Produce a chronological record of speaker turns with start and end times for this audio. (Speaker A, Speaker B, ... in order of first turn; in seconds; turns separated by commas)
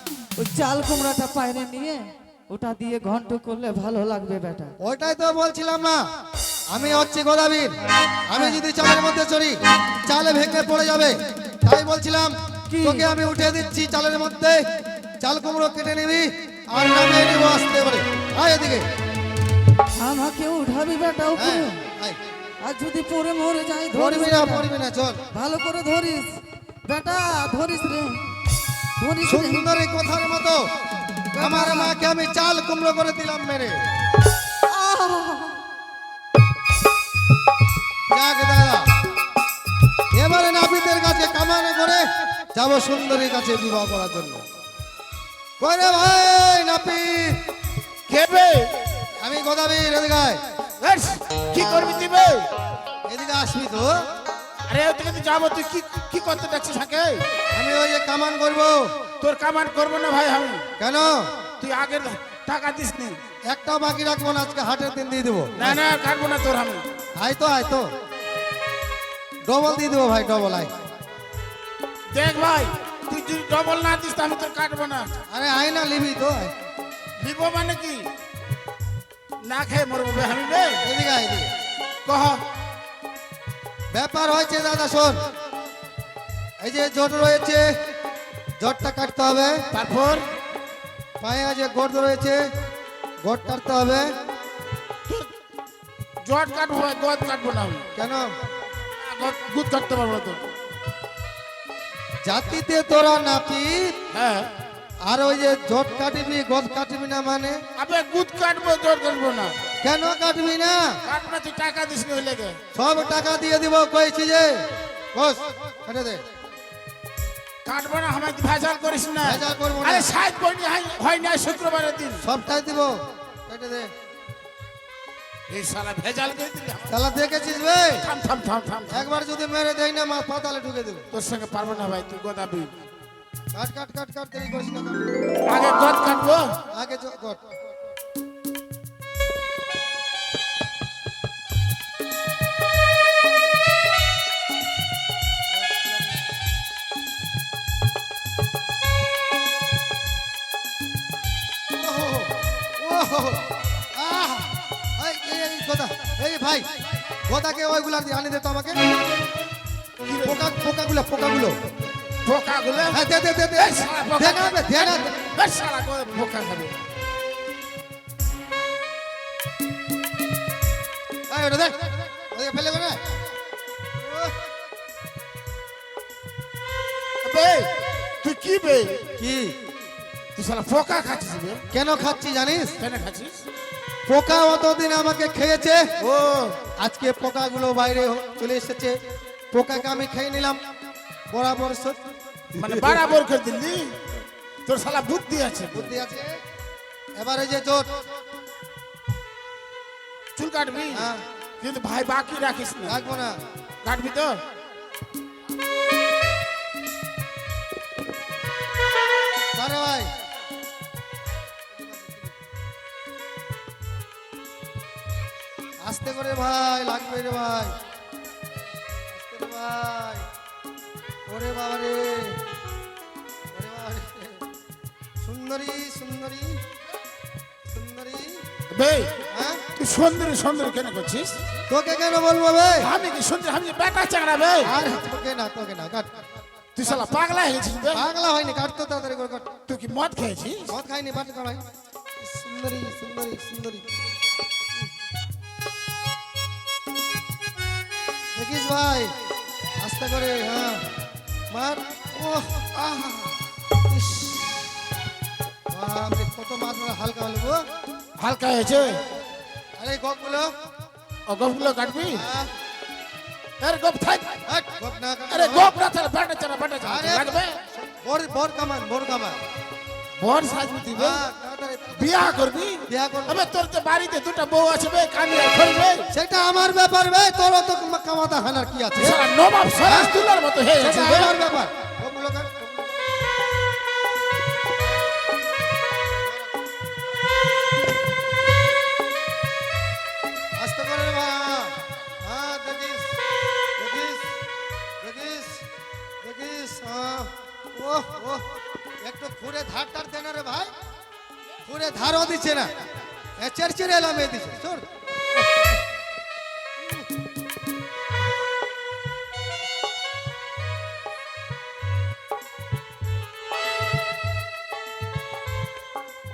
Speaker A: 0.4-4.7, Speaker B: 4.8-6.0, Speaker B: 6.7-7.7, Speaker B: 8.3-14.6, Speaker A: 12.7-13.1, Speaker B: 15.2-18.8, Speaker A: 20.0-21.8, Speaker B: 21.4-22.2, Speaker A: 22.6-24.6, Speaker B: 23.9-25.2, Speaker A: 25.3-26.3, Speaker A: 26.9-28.2, Speaker A: 29.0-29.6, Speaker B: 29.2-30.6, Speaker A: 31.4-32.0, Speaker B: 31.4-33.8, Speaker A: 34.7-35.6, Speaker B: 38.1-38.9, Speaker B: 40.1-44.4, Speaker B: 45.6-47.4, Speaker C: 48.1-48.8, Speaker B: 49.2-50.4, Speaker C: 50.8-52.5, Speaker B: 53.1-54.0, Speaker C: 54.7-57.2, Speaker B: 57.5-58.9, Speaker C: 59.2-60.6, Speaker B: 60.8-61.2, Speaker C: 61.6-63.2, Speaker B: 63.5-65.8, Speaker C: 65.6-66.8, Speaker B: 67.2-67.9, Speaker B: 69.5-70.7, Speaker C: 72.1-75.1, Speaker B: 75.3-76.5, Speaker C: 77.2-78.1, Speaker C: 79.4-80.8, Speaker B: 80.8-81.5, Speaker C: 82.0-82.4, Speaker B: 83.9-85.2, Speaker B: 86.6-87.7, Speaker B: 88.6-89.6, Speaker C: 89.7-90.2, Speaker B: 91.2-92.4, Speaker B: 93.2-94.1, Speaker C: 96.2-97.8, Speaker B: 98.0-98.3, Speaker C: 99.0-100.5, Speaker B: 102.2-103.9, Speaker C: 104.1-104.5, Speaker B: 105.1-107.6, Speaker C: 107.8-109.6, Speaker B: 109.8-111.0, Speaker C: 111.0-112.6, Speaker B: 112.7-114.5, Speaker B: 115.1-116.2, Speaker C: 117.6-122.2, Speaker B: 119.2-120.1, Speaker B: 122.2-123.0, Speaker B: 123.5-123.9, Speaker C: 125.5-126.9, Speaker B: 126.9-128.0, Speaker C: 128.0-129.1, Speaker B: 128.9-131.1, Speaker C: 131.1-132.8, Speaker B: 133.5-135.1, Speaker C: 135.5-136.6, Speaker B: 136.7-137.4, Speaker B: 151.8-156.7, Speaker B: 157.3-158.8, Speaker C: 160.0-160.5, Speaker B: 160.2-161.6, Speaker C: 162.2-163.0, Speaker B: 162.9-165.1, Speaker C: 163.6-166.8, Speaker B: 171.3-173.0, Speaker C: 177.2-179.1, Speaker B: 179.2-179.5, Speaker C: 180.4-181.6, Speaker B: 181.7-182.8, Speaker C: 182.8-183.4, Speaker B: 184.1-185.9, Speaker C: 186.0-186.6, Speaker B: 186.8-189.0, Speaker B: 189.5-190.6, Speaker B: 191.3-192.0, Speaker B: 192.6-193.0, Speaker C: 192.6-194.0, Speaker C: 194.7-196.0, Speaker B: 195.7-196.3, Speaker B: 197.2-197.9, Speaker C: 200.4-201.1, Speaker B: 200.9-201.2, Speaker C: 201.6-203.0, Speaker B: 202.9-203.3, Speaker C: 203.8-204.4, Speaker B: 209.5-210.1, Speaker B: 211.8-212.1, Speaker B: 215.8-217.7, Speaker B: 219.1-220.2, Speaker B: 221.3-222.4, Speaker B: 223.5-224.4, Speaker B: 225.2-226.6, Speaker B: 227.7-228.4, Speaker C: 228.7-229.2, Speaker B: 229.3-229.7, Speaker C: 229.8-231.4, Speaker B: 231.7-232.9, Speaker C: 232.8-234.8, Speaker B: 234.6-236.1, Speaker C: 236.8-238.0, Speaker B: 237.9-239.5, Speaker C: 239.7-240.8, Speaker B: 240.7-241.6, Speaker B: 242.2-243.9, Speaker B: 248.3-249.1, Speaker B: 249.8-250.8, Speaker B: 251.5-252.7, Speaker C: 252.9-253.2, Speaker B: 253.9-254.8, Speaker B: 255.7-257.6, Speaker C: 258.2-259.0, Speaker B: 259.8-260.5, Speaker C: 261.3-262.2, Speaker B: 262.1-262.5, Speaker C: 263.6-264.4, Speaker B: 264.5-265.7, Speaker C: 265.3-267.6, Speaker B: 266.8-269.4, Speaker C: 270.2-271.2, Speaker B: 270.9-273.4, Speaker C: 272.0-276.1, Speaker B: 276.1-279.2, Speaker C: 278.9-281.4, Speaker B: 279.9-280.1, Speaker B: 280.8-282.7, Speaker B: 290.6-293.1, Speaker B: 293.8-294.4, Speaker B: 295.0-295.6, Speaker B: 296.2-298.5, Speaker B: 299.0-300.7, Speaker B: 301.6-302.7, Speaker B: 303.4-304.9